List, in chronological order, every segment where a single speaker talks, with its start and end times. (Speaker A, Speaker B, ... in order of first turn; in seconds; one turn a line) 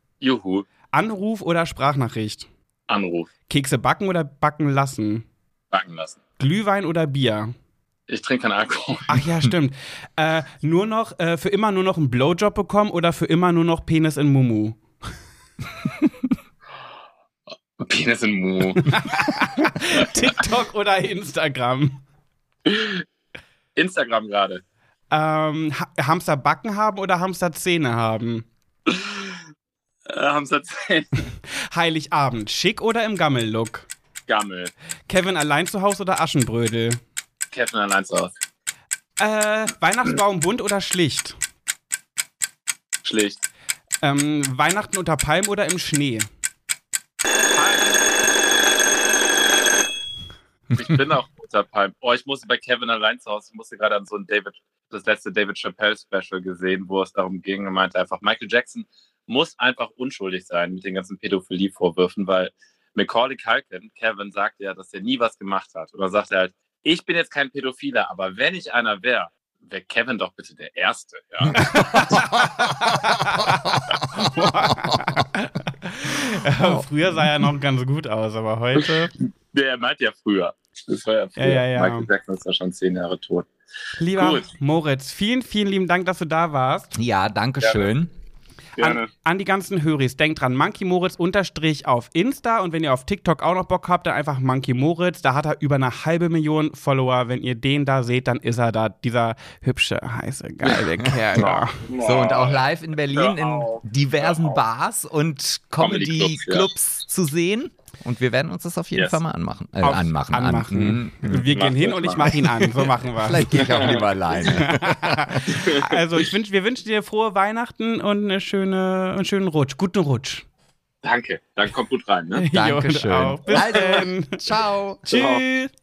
Speaker A: 0.2-0.7
Speaker B: 0.9-2.5
Speaker A: 2.9-3.3
Speaker B: 3.5-5.2
Speaker A: 5.7-6.2
Speaker B: 6.4-7.5
Speaker A: 8.1-9.2
Speaker B: 9.1-14.8
Speaker A: 17.8-18.9
Speaker B: 18.8-22.0
Speaker A: 19.9-20.4
Speaker A: 22.6-23.0
Speaker A: 23.8-24.6
Speaker B: 25.1-28.4
Speaker A: 28.9-29.3
Speaker A: 30.1-31.1
Speaker B: 31.7-33.9
Speaker A: 34.3-34.7
Speaker B: 35.1-37.0
Speaker A: 37.5-38.3
Speaker B: 39.2-41.4
Speaker A: 43.0-43.4
Speaker B: 44.0-46.2
Speaker A: 47.5-48.0
Speaker A: 50.7-71.7
Speaker B: 71.5-79.1
Speaker C: 71.7-72.2
Speaker A: 78.8-79.0
Speaker A: 79.5-83.5
Speaker B: 81.4-82.1
Speaker B: 84.0-86.9
Speaker A: 84.1-84.5
Speaker C: 86.9-88.1
Speaker A: 87.6-87.9
Speaker A: 88.8-89.1
Speaker B: 88.8-101.8
Speaker A: 101.3-104.6
Speaker C: 102.0-111.5
Speaker A: 105.8-106.7
Speaker A: 108.9-109.2
Speaker B: 109.8-120.4
Speaker A: 111.4-112.3
Speaker C: 113.2-115.5
Speaker A: 113.5-114.6
Speaker A: 115.5-115.8
Speaker A: 121.0-122.4
Speaker B: 122.4-124.4
Speaker C: 122.5-125.0
Speaker A: 123.5-124.0
Speaker B: 125.0-125.7
Speaker A: 125.1-125.4